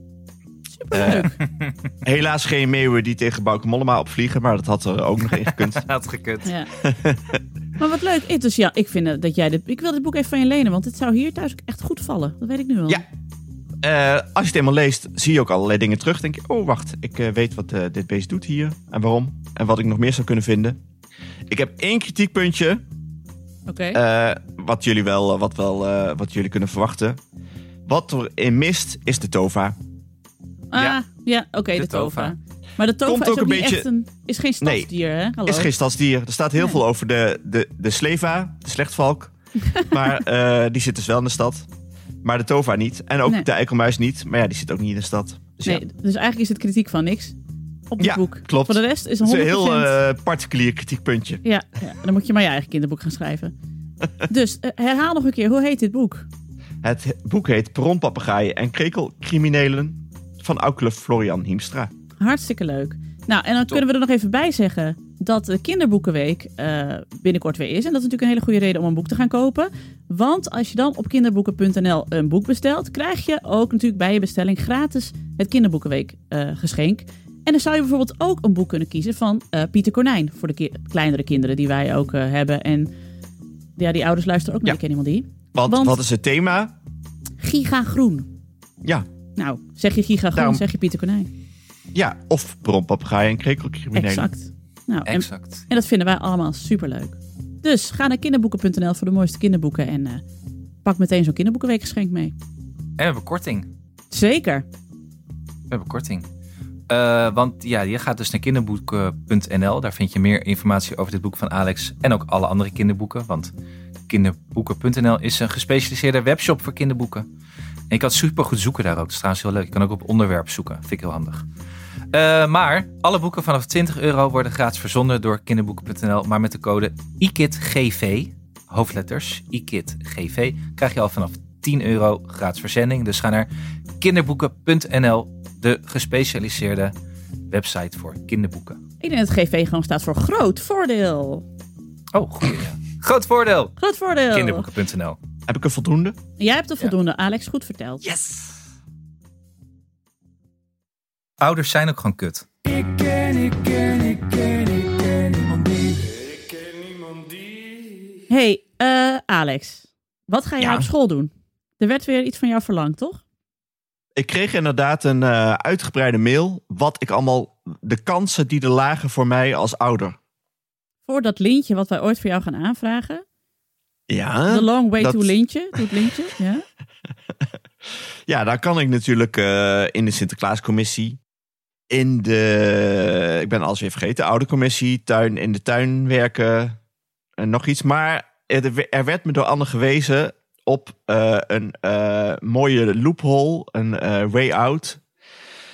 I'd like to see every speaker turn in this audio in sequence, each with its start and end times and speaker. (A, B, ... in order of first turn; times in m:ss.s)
0:00.8-0:01.3 A
0:00.9-0:01.3 B
0:01.0-0:01.7 C
0:02.0-0:05.8 B
0:05.4-0:06.5 C
0:06.8-0:07.4 B
0:07.8-0:13.0 A
0:13.8-0:20.8 B
0:21.5-0:22.8 B
0:23.7-0:24.0 A
0:23.9-0:27.2 B
0:27.8-0:29.8 B
0:30.7-0:35.7 A
0:31.8-0:32.3 C
0:33.0-0:33.9 B
0:34.6-0:34.9 B
0:35.4-0:41.7 B
0:42.2-0:45.8 B
0:45.6-0:47.3 A
0:47.9-0:49.9 A
0:48.0-0:51.4 B
0:51.4-0:53.5 A
0:54.3-0:56.3 A
0:56.8-1:01.9 B
1:02.2-1:22.9 A
1:23.8-1:26.0 A
1:25.5-1:26.7 B
1:27.4-1:28.3 A
1:29.4-1:31.3 A
1:30.3-1:30.6 B
1:31.9-1:34.3 B
1:33.9-1:40.2 A
1:35.1-1:35.6 C
1:40.8-1:42.3 A
1:43.0-1:43.7 C
1:44.1-1:44.6 A
1:45.7-1:46.2 C
1:46.9-1:53.5 C
1:54.1-1:57.3 C
1:57.9-2:01.4 C
2:02.1-2:13.5 C
2:14.0-2:16.9 C
2:17.5-2:18.8 C
2:19.0-2:21.4 A
2:22.1-2:23.7 C
2:23.8-2:24.6 A
2:24.3-2:25.2 C
2:25.5-2:26.2 B
2:26.4-2:28.0 A
2:28.0-2:28.5 B
2:31.4-2:32.4 C
2:32.6-2:38.2 D
2:38.3-2:43.2 A
2:40.6-2:40.9 B
2:44.2-2:50.2 B
2:51.1-2:53.2 A
2:54.1-2:55.3 B
2:54.5-2:56.6 A
2:58.3-3:01.2 B
3:01.9-3:06.8 B
3:07.4-3:15.0 B